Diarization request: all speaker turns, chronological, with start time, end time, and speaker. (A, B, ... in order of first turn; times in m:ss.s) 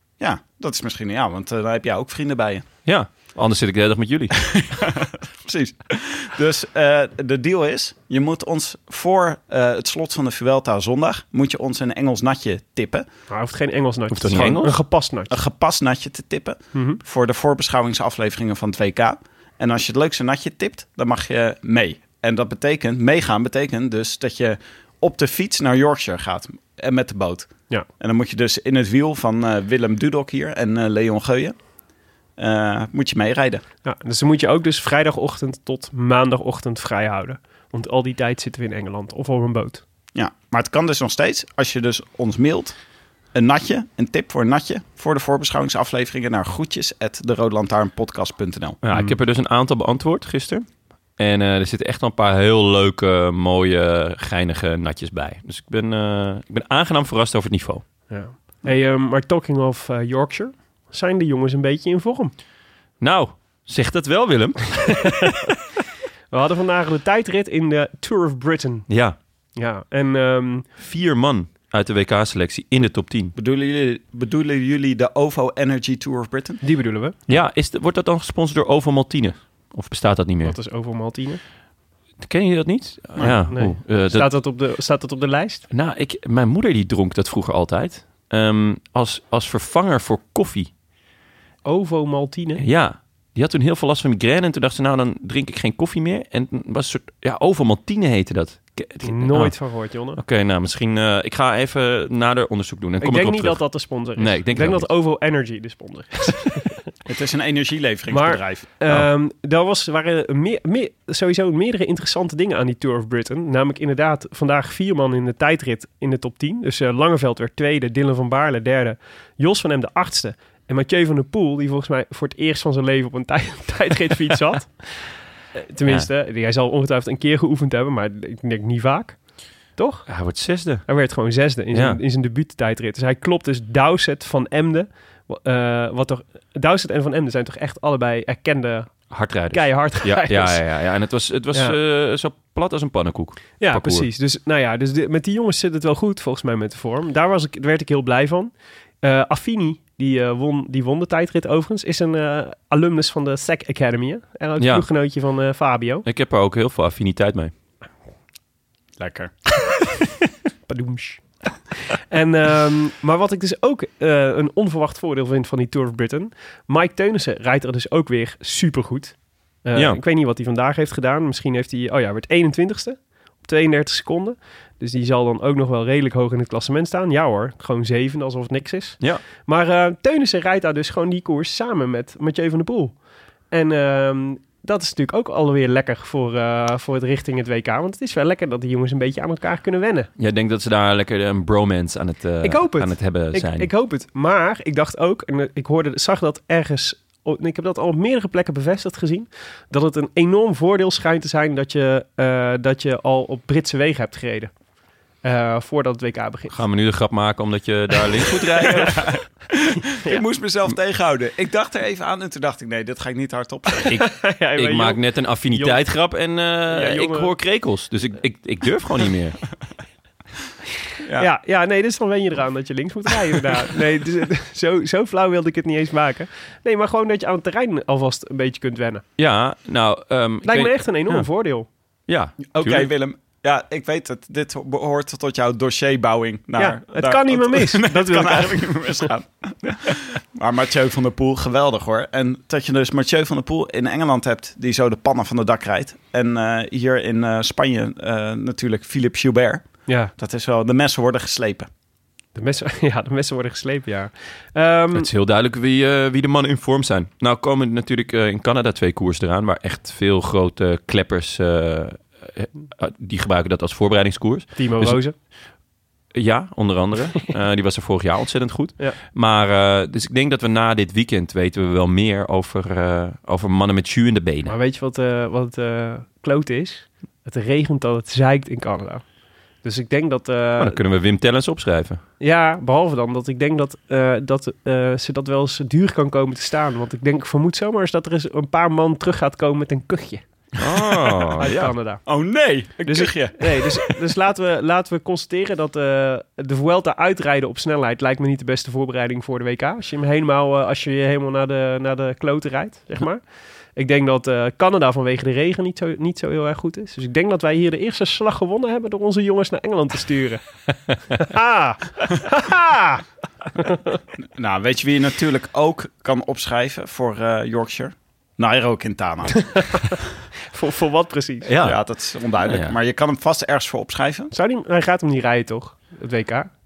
0:00.2-0:02.6 A
0:02.8-0:04.7 B
0:04.4-0:13.1 A
0:13.3-0:15.4 C
0:14.1-0:14.8 B
0:15.3-0:31.6 A
0:16.8-0:17.0 C
0:32.4-0:33.6 A
0:33.8-0:39.8 C
0:40.2-0:42.8 A
0:43.3-0:48.8 A
0:48.8-0:57.8 B
0:58.1-1:02.3 C
1:03.0-1:05.5 B
1:06.3-1:08.9 C
1:08.9-1:09.2 B
1:09.6-1:10.7 C
1:10.8-1:13.3 B
1:13.4-1:16.6 A
1:16.6-1:17.2 C
1:17.3-1:20.6 B
1:20.4-1:21.4 C
1:22.2-1:24.3 B
1:23.5-1:25.7 C
1:25.7-1:30.7 B
1:31.6-1:32.6 C
1:32.6-1:39.6 B
1:39.0-1:40.2 C
1:40.2-1:43.6 B
1:43.0-1:46.8 C
1:44.2-1:44.9 B
1:47.1-1:48.8 A
1:48.1-2:04.8 C
2:05.6-2:09.2 C
2:09.8-2:10.1 C
2:10.1-2:10.9 B
2:10.9-2:20.6 C
2:11.7-2:12.0 B
2:19.1-2:24.1 B
2:23.6-2:36.0 C
2:34.6-2:34.9 B
2:36.0-2:37.5 B
2:39.0-2:39.3 A
2:40.7-3:03.0 C
2:49.8-2:50.0 B
3:03.5-3:10.1 C
3:10.2-3:13.7 B
3:12.4-3:24.5 C
3:25.2-3:26.6 C
3:26.5-3:29.1 B
3:28.6-3:29.1 C
3:29.1-3:33.9 A
3:33.8-3:35.8 C
3:33.9-3:39.4 B
3:36.7-3:37.3 C
3:41.2-3:49.0 C
3:49.2-3:51.3 B
3:50.4-3:51.7 C
3:52.1-3:52.9 B
3:52.5-4:11.7 A
3:56.6-3:58.8 C
4:12.3-4:15.1 C
4:14.9-4:25.0 B
4:24.6-4:25.2 C
4:26.1-4:34.6 B
4:34.5-4:39.0 C
4:39.6-4:40.8 C
4:40.6-4:42.0 B
4:42.2-4:50.2 C
4:50.6-4:51.7 B
4:51.4-4:52.0 C
4:52.1-4:53.9 A
4:52.8-5:03.2 C
5:03.8-5:10.4 C
5:11.1-5:13.0 C
5:13.6-5:14.0 C
5:14.3-5:19.5 A
5:19.5-5:19.8 C
5:20.5-5:21.5 C
5:21.4-5:21.8 B
5:21.6-5:24.3 A
5:22.4-5:22.8 B
5:24.3-5:26.5 C